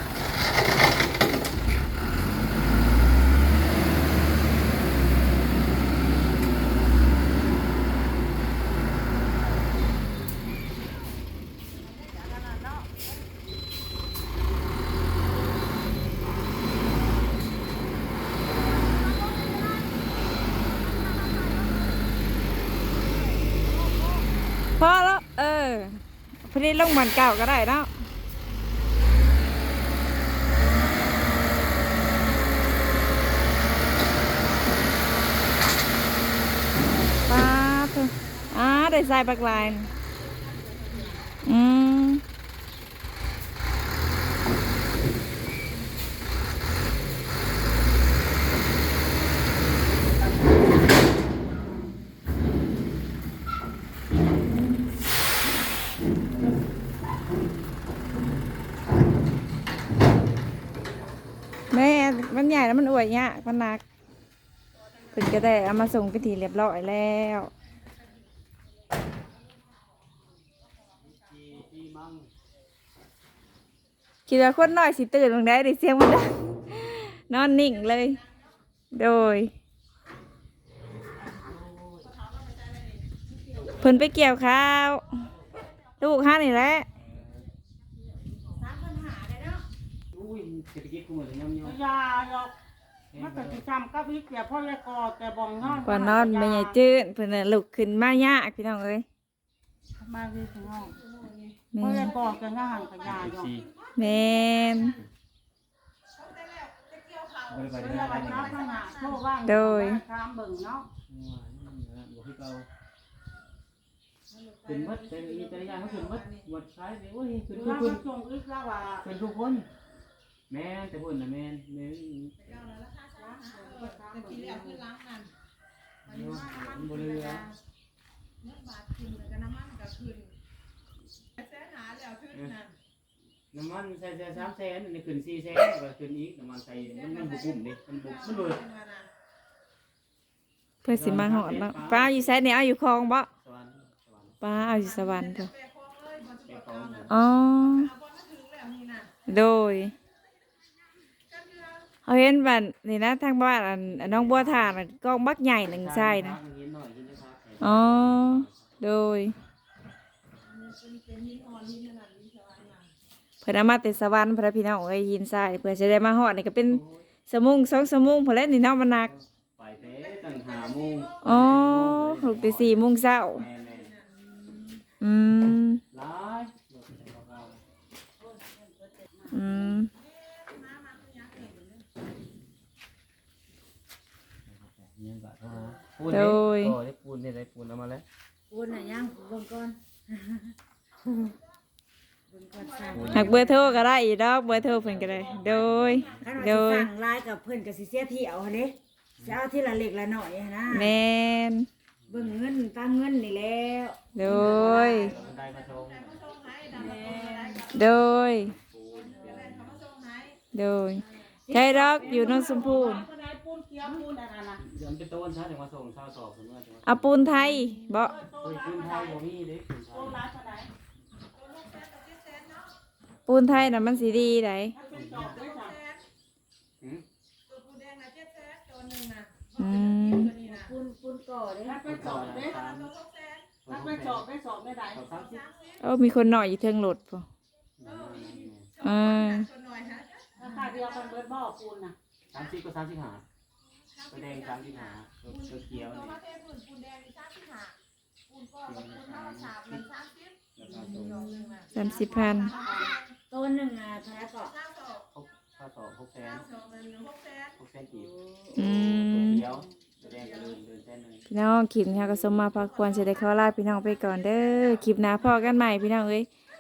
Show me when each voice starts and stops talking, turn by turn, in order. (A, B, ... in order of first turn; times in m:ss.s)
0:19.2-0:19.5 A
0:24.8-0:27.9 B
0:37.3-0:39.9 B
0:39.8-0:41.3 A
0:41.4-0:42.2 B
1:01.7-1:03.8 B
1:05.1-1:07.5 B
1:11.1-1:12.3 C
1:14.3-1:18.2 B
1:18.9-1:19.5 B
1:21.7-1:22.0 C
1:22.1-1:23.2 A
1:23.8-1:25.2 B
1:26.0-1:26.9 B
1:28.6-1:29.6 D
1:30.1-1:31.8 C
1:31.7-1:32.5 E
1:33.1-1:33.6 C
1:33.2-1:36.8 E
1:35.6-1:35.9 C
1:35.8-1:39.1 B
1:40.0-1:41.0 E
1:40.9-1:41.6 A
1:41.7-1:42.1 B
1:41.8-1:43.5 E
1:42.1-1:45.0 A
1:43.1-1:43.7 C
1:44.0-1:45.0 B
1:46.2-1:49.2 A
1:47.5-1:48.7 C
1:47.9-1:50.9 E
1:49.4-1:50.0 B
1:51.1-1:52.7 C
1:54.3-1:56.4 A
1:54.6-1:58.0 C
1:57.5-1:59.0 E
1:59.0-1:59.7 C
2:00.5-2:02.4 C
2:02.4-2:05.3 A
2:03.2-2:04.8 E
2:06.0-2:07.5 C
2:06.3-2:07.5 A
2:08.4-2:10.3 A
2:11.4-2:12.7 A
2:13.5-2:18.6 C
2:16.9-2:17.7 A
2:18.5-2:19.1 A
2:20.8-2:23.3 B
2:20.9-2:22.4 C
2:23.4-2:24.4 C
2:24.4-2:25.5 B
2:24.9-2:27.1 A
2:26.4-2:27.2 C
2:27.1-2:27.9 B
2:27.8-2:29.1 A
2:29.3-2:29.9 B
2:31.3-2:31.9 A
2:32.1-2:36.4 B
2:33.9-2:34.8 C
2:35.7-2:38.7 C
2:37.6-2:39.4 B
2:40.5-2:42.9 A
2:43.4-2:49.1 B
2:49.6-2:53.9 C
2:51.2-2:53.5 B
2:55.0-2:55.8 B
2:55.9-2:57.6 C
2:58.5-2:59.3 D
2:59.3-2:59.9 B
3:00.0-3:01.8 A
3:04.5-3:08.0 C
3:06.1-3:06.8 B
3:08.5-3:10.5 D
3:12.3-3:13.3 D
3:12.6-3:13.6 A
3:12.9-3:13.4 C
3:13.1-3:16.9 B
3:14.5-3:16.3 C
3:15.5-3:16.2 A
3:16.1-3:21.0 D
3:20.7-3:21.7 B
3:22.1-3:22.4 C
3:22.1-3:24.2 D
3:24.2-3:25.1 B
3:24.2-3:27.2 C
3:24.4-3:27.9 A
3:26.8-3:27.7 D
3:27.7-3:28.5 B
3:28.3-3:29.8 C
3:29.1-3:30.4 A
3:30.5-3:33.0 B
3:31.5-3:33.0 D
3:31.9-3:34.6 E
3:34.6-3:37.0 C
3:36.9-3:38.2 B
3:38.1-3:39.1 E
3:38.4-3:40.2 C
3:39.9-3:40.7 E
3:41.4-3:42.7 A
3:43.3-3:44.8 B
3:44.7-3:45.8 E
3:44.8-3:46.0 A
3:44.9-3:45.3 C
3:47.5-3:50.7 A
3:49.6-3:50.3 B
3:50.4-3:52.0 D
3:51.7-3:52.6 E
3:51.8-3:52.9 C
3:52.2-3:53.6 A
3:53.6-3:54.2 C
3:53.7-3:55.0 E
3:54.9-3:55.4 C
3:55.1-3:55.8 A
3:55.8-3:57.3 B
3:57.8-3:58.7 C
3:58.8-4:01.0 A
3:58.8-3:59.5 B
4:00.4-4:02.0 E
4:02.3-4:03.2 C
4:04.0-4:07.7 A
4:04.1-4:06.2 C
4:08.3-4:13.1 A
4:08.6-4:09.8 C
4:10.6-4:11.3 C
4:10.7-4:11.6 D
4:11.7-4:12.5 B
4:13.3-4:14.6 D
4:14.6-4:15.0 A
4:15.1-4:16.5 C
4:16.4-4:17.5 A
4:17.6-4:21.3 C
4:18.0-4:18.8 D
4:18.6-4:19.4 B
4:21.3-4:26.3 B